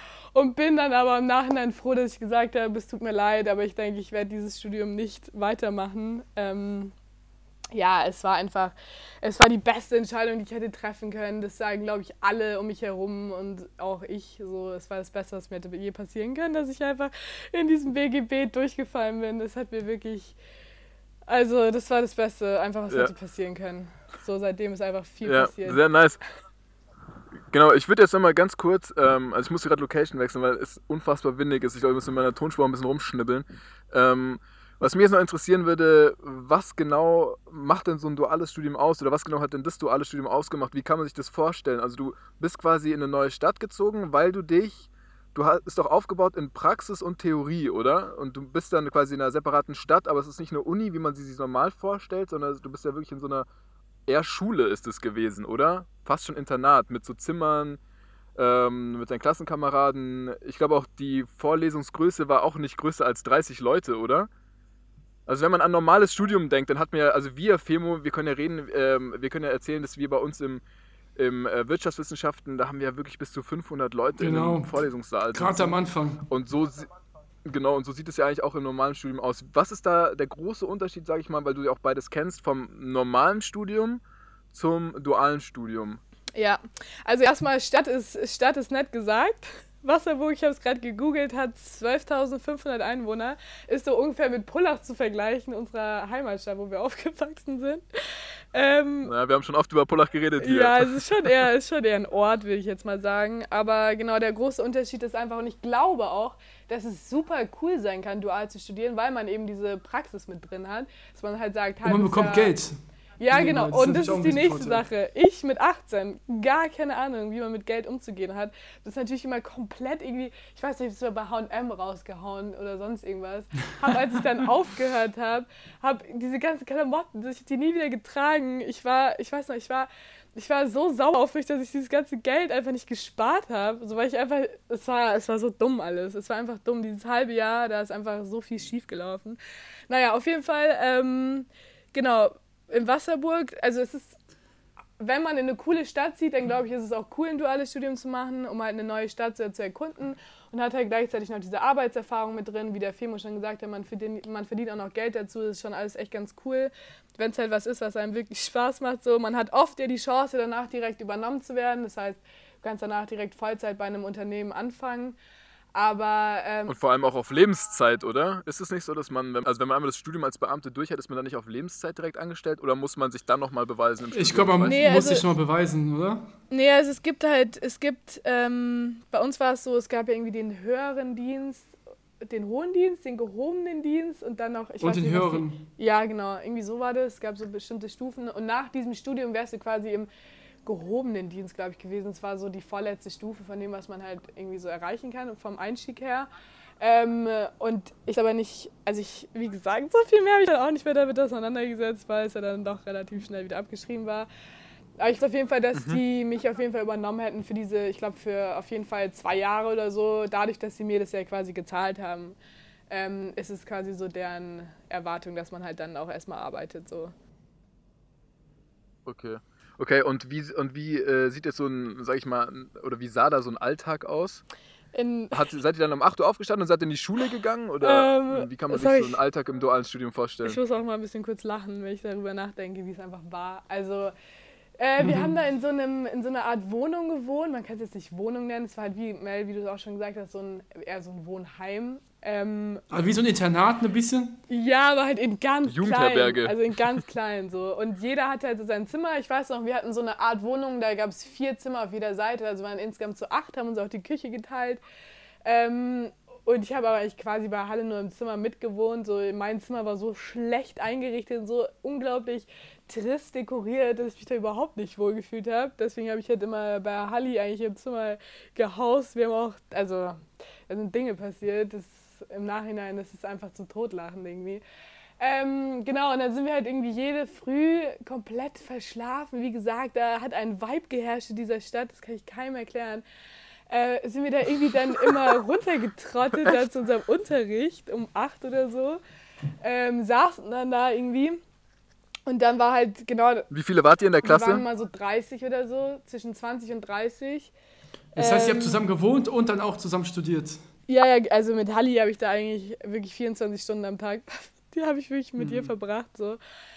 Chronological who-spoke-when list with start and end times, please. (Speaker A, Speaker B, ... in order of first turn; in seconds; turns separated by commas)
Speaker A: 0.3-6.9, Speaker A: 7.7-20.4, Speaker A: 21.3-25.8, Speaker B: 25.2-26.2, Speaker B: 27.5-53.5, Speaker B: 54.1-57.8, Speaker B: 58.4-64.3, Speaker B: 65.3-70.6, Speaker B: 71.2-76.9, Speaker C: 74.2-74.7, Speaker C: 75.3-76.2, Speaker B: 77.5-84.0, Speaker B: 84.5-86.0, Speaker A: 86.4-99.1, Speaker B: 99.0-101.1, Speaker A: 100.4-112.6, Speaker C: 111.8-112.8, Speaker A: 113.2-144.2, Speaker C: 113.3-114.8, Speaker A: 145.0-165.2, Speaker A: 165.7-166.8, Speaker B: 166.7-174.8, Speaker C: 174.1-176.3, Speaker A: 174.7-175.2, Speaker A: 176.5-190.1, Speaker C: 184.8-185.6, Speaker A: 190.7-196.3, Speaker A: 196.8-204.3, Speaker A: 205.0-212.4, Speaker B: 205.7-206.0, Speaker A: 212.9-217.1, Speaker B: 219.1-224.4, Speaker A: 224.9-225.4, Speaker B: 225.3-230.6, Speaker A: 227.8-229.2, Speaker A: 230.4-234.1, Speaker A: 234.8-242.8, Speaker C: 235.0-235.3, Speaker C: 242.9-244.4, Speaker A: 244.5-254.8, Speaker B: 245.7-247.0, Speaker A: 255.4-274.6, Speaker A: 275.2-283.0, Speaker A: 283.7-289.0, Speaker B: 286.3-286.6, Speaker A: 289.6-291.4, Speaker A: 292.3-293.5, Speaker B: 293.5-294.6, Speaker A: 294.2-297.5, Speaker C: 298.1-300.6, Speaker A: 298.2-298.8, Speaker A: 300.9-306.4, Speaker C: 305.4-305.7